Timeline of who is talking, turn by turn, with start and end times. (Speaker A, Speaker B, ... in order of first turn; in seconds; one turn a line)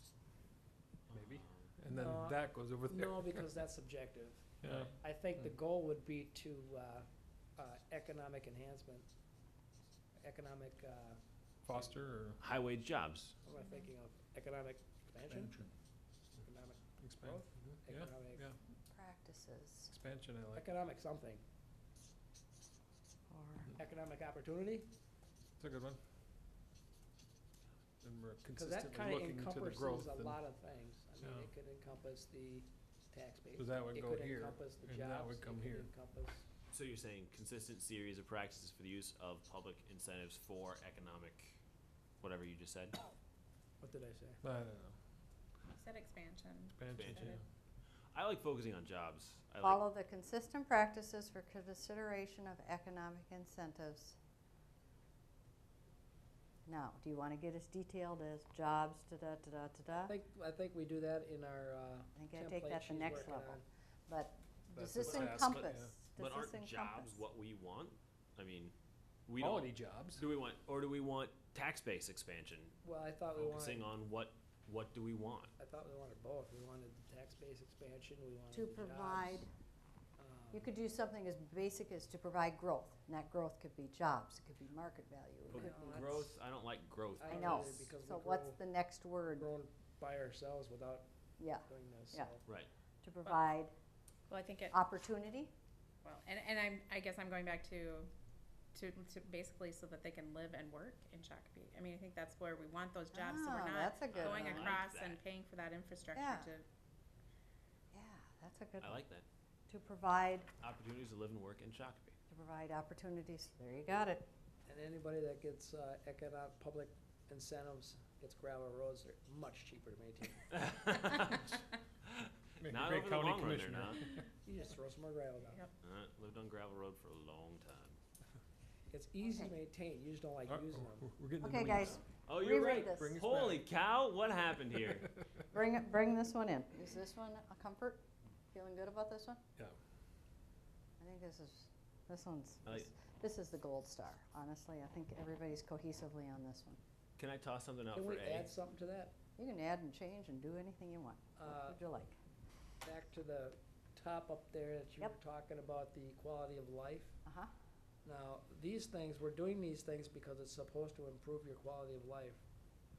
Speaker A: 1.1-1.7
Speaker B: 1.1-3.4
Speaker C: 1.9-9.1
Speaker B: 4.6-4.9
Speaker C: 10.2-11.2
Speaker B: 11.7-12.4
Speaker A: 12.4-13.3
Speaker C: 13.4-15.6
Speaker C: 16.4-18.4
Speaker B: 17.0-18.6
Speaker D: 18.9-19.9
Speaker B: 19.9-20.6
Speaker C: 20.5-21.4
Speaker D: 23.3-23.7
Speaker C: 23.8-24.9
Speaker B: 25.6-26.0
Speaker B: 28.0-30.4
Speaker C: 28.6-36.4
Speaker B: 31.2-31.5
Speaker B: 33.6-35.9
Speaker A: 36.7-41.6
Speaker A: 42.2-43.0
Speaker C: 43.8-44.4
Speaker B: 44.4-44.9
Speaker E: 45.7-47.4
Speaker B: 46.8-47.4
Speaker A: 46.9-47.4
Speaker A: 48.1-49.8
Speaker D: 49.6-54.2
Speaker D: 56.7-60.1
Speaker C: 60.1-63.6
Speaker D: 62.1-67.2
Speaker B: 64.7-65.9
Speaker A: 65.1-68.7
Speaker A: 69.3-72.8
Speaker B: 69.4-70.2
Speaker C: 72.8-73.9
Speaker A: 73.3-75.5
Speaker C: 75.6-79.5
Speaker D: 78.5-79.5
Speaker C: 80.2-80.7
Speaker D: 80.5-86.3
Speaker A: 85.5-87.8
Speaker C: 85.5-86.2
Speaker C: 87.2-88.6
Speaker D: 87.3-89.5
Speaker C: 89.4-91.0
Speaker D: 91.4-92.3
Speaker C: 91.7-92.5
Speaker D: 93.0-93.7
Speaker E: 94.3-94.8
Speaker D: 94.7-95.5
Speaker E: 96.0-98.1
Speaker E: 98.7-106.7
Speaker D: 103.1-104.8
Speaker A: 104.1-105.2
Speaker D: 106.1-106.5
Speaker D: 107.9-109.0
Speaker A: 108.8-109.2
Speaker D: 109.7-110.5
Speaker A: 110.6-112.2
Speaker D: 112.3-114.3
Speaker C: 114.7-120.5
Speaker A: 120.5-121.5
Speaker A: 122.0-124.0
Speaker B: 122.6-124.0
Speaker C: 124.4-125.6
Speaker A: 125.8-128.0
Speaker C: 128.9-131.1
Speaker D: 129.2-129.5
Speaker B: 130.5-132.0
Speaker D: 131.4-133.2
Speaker A: 132.2-135.1
Speaker B: 132.9-133.7
Speaker D: 135.5-139.4
Speaker D: 141.0-146.8
Speaker A: 147.2-148.5
Speaker C: 147.9-149.1
Speaker D: 149.4-152.2
Speaker C: 151.4-151.8
Speaker C: 152.8-157.2
Speaker D: 157.2-157.5
Speaker C: 158.0-162.4